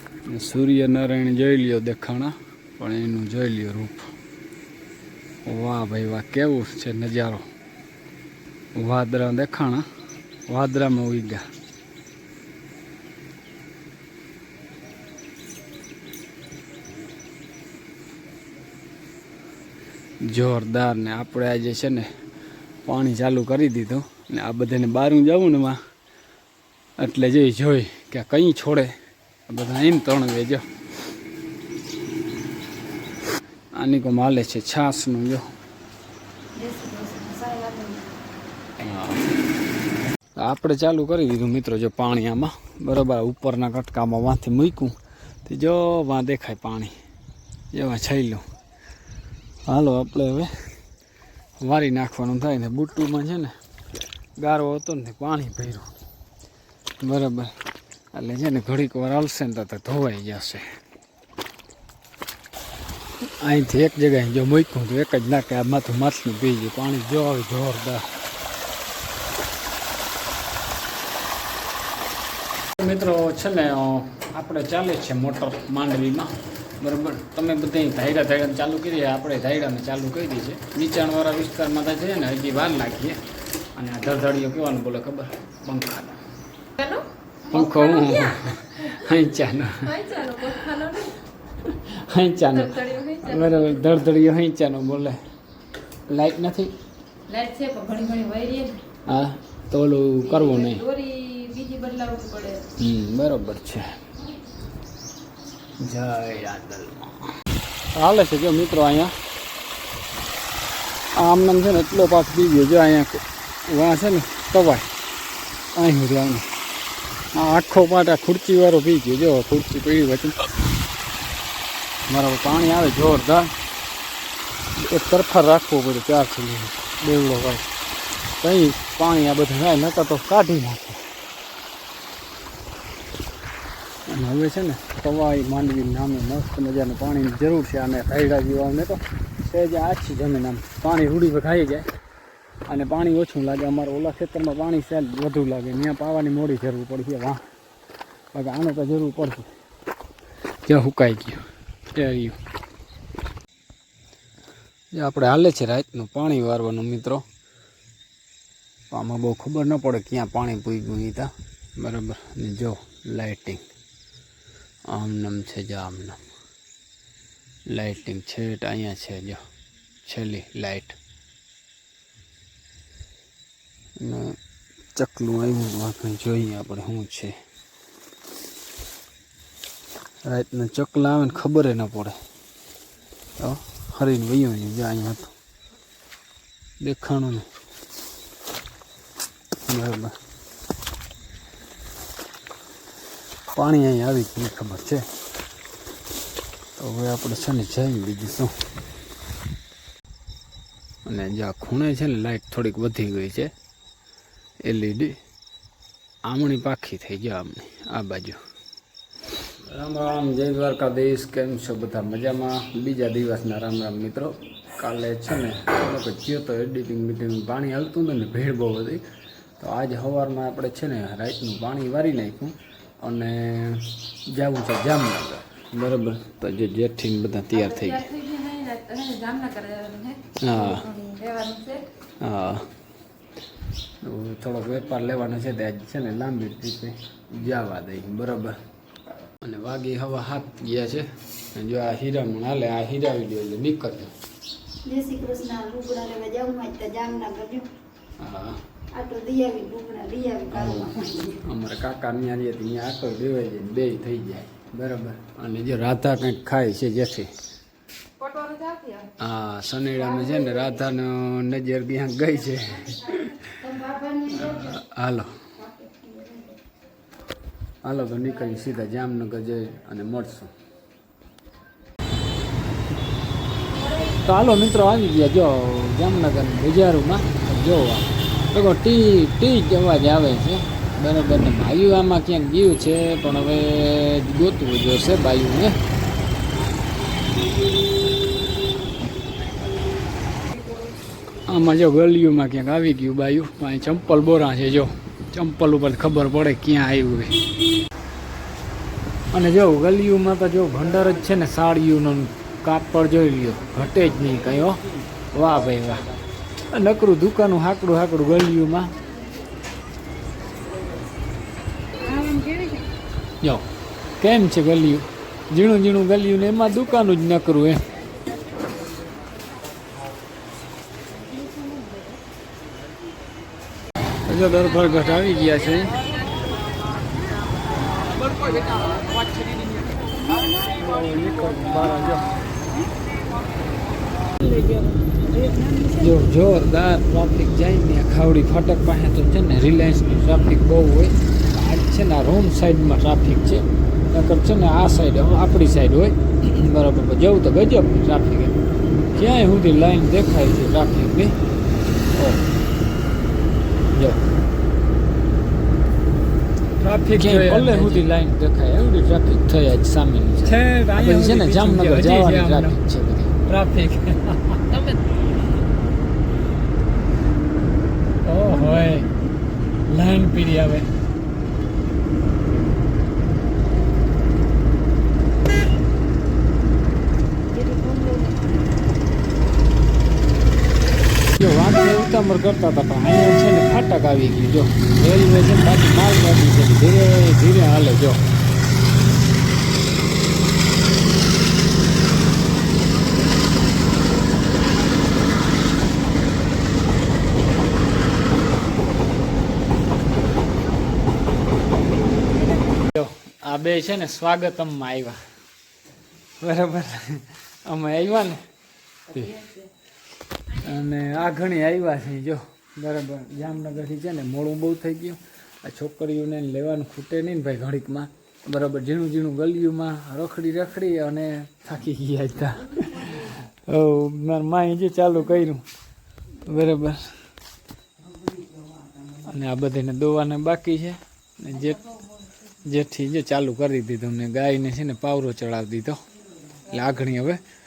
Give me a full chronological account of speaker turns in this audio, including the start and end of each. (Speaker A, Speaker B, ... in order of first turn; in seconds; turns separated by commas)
Speaker A: 0.3-4.1, Speaker A: 5.5-7.4, Speaker A: 8.7-9.8, Speaker A: 10.5-11.4, Speaker A: 20.2-22.1, Speaker A: 22.8-25.8, Speaker A: 27.0-28.9, Speaker A: 29.5-30.7, Speaker A: 33.7-35.4, Speaker B: 36.5-38.1, Speaker A: 38.8-39.3, Speaker A: 40.4-44.9, Speaker A: 45.5-46.9, Speaker A: 47.7-48.4, Speaker A: 49.6-50.5, Speaker A: 51.6-53.5, Speaker A: 54.4-55.9, Speaker A: 57.0-57.5, Speaker A: 58.1-60.6, Speaker A: 63.4-68.0, Speaker A: 72.8-83.2, Speaker A: 83.7-86.2, Speaker C: 86.8-87.0, Speaker A: 87.5-95.2, Speaker C: 89.9-91.1, Speaker C: 92.5-93.7, Speaker A: 96.1-96.7, Speaker C: 97.3-98.8, Speaker A: 99.0-100.9, Speaker C: 100.3-102.7, Speaker A: 102.8-103.9, Speaker A: 105.8-107.1, Speaker A: 107.9-109.1, Speaker A: 111.2-114.9, Speaker A: 115.7-116.5, Speaker A: 117.3-120.4, Speaker A: 122.1-123.5, Speaker A: 124.8-127.6, Speaker A: 128.4-131.0, Speaker A: 134.1-141.9, Speaker A: 142.7-147.4, Speaker A: 148.3-149.5, Speaker A: 150.6-151.4, Speaker A: 151.9-152.3, Speaker A: 154.9-157.2, Speaker A: 158.9-163.6, Speaker A: 164.9-166.2, Speaker A: 167.7-169.4, Speaker A: 170.1-171.0, Speaker A: 174.0-174.3, Speaker A: 174.9-177.3, Speaker A: 180.2-182.2, Speaker A: 183.4-185.3, Speaker A: 186.8-187.4, Speaker A: 189.6-190.1, Speaker A: 193.5-195.1, Speaker A: 196.8-198.5, Speaker A: 201.1-203.5, Speaker A: 204.6-205.2, Speaker A: 206.2-208.4, Speaker A: 209.7-219.0, Speaker A: 219.6-228.1, Speaker C: 227.7-231.9, Speaker A: 230.4-230.9, Speaker A: 232.2-232.7, Speaker A: 234.0-238.6, Speaker A: 239.4-244.1, Speaker B: 244.8-247.7, Speaker A: 248.2-248.6, Speaker B: 248.9-251.4, Speaker A: 250.5-257.3, Speaker C: 258.2-259.1, Speaker A: 259.2-265.4, Speaker B: 263.8-264.4, Speaker B: 265.8-266.5, Speaker A: 267.8-270.5, Speaker A: 274.0-285.8, Speaker A: 291.5-297.4, Speaker A: 299.3-304.8, Speaker A: 305.3-306.1, Speaker A: 306.7-308.9, Speaker B: 312.1-312.8, Speaker A: 314.2-317.9, Speaker A: 324.3-326.0, Speaker A: 330.8-332.4, Speaker B: 334.5-334.8, Speaker B: 335.3-335.9, Speaker A: 335.9-348.5, Speaker A: 349.1-351.3, Speaker A: 352.1-352.4, Speaker A: 353.9-354.2, Speaker D: 356.8-358.0, Speaker A: 357.1-363.4, Speaker D: 360.4-362.8, Speaker D: 363.5-364.6, Speaker C: 364.7-365.0, Speaker D: 368.3-369.0, Speaker A: 368.3-369.1, Speaker D: 369.9-370.9, Speaker B: 377.6-378.8, Speaker A: 381.4-388.2, Speaker A: 402.9-405.2, Speaker A: 406.4-408.4, Speaker A: 409.1-409.5, Speaker A: 410.5-425.6, Speaker A: 426.4-427.1, Speaker A: 429.2-431.8, Speaker A: 432.6-436.0, Speaker A: 436.7-437.4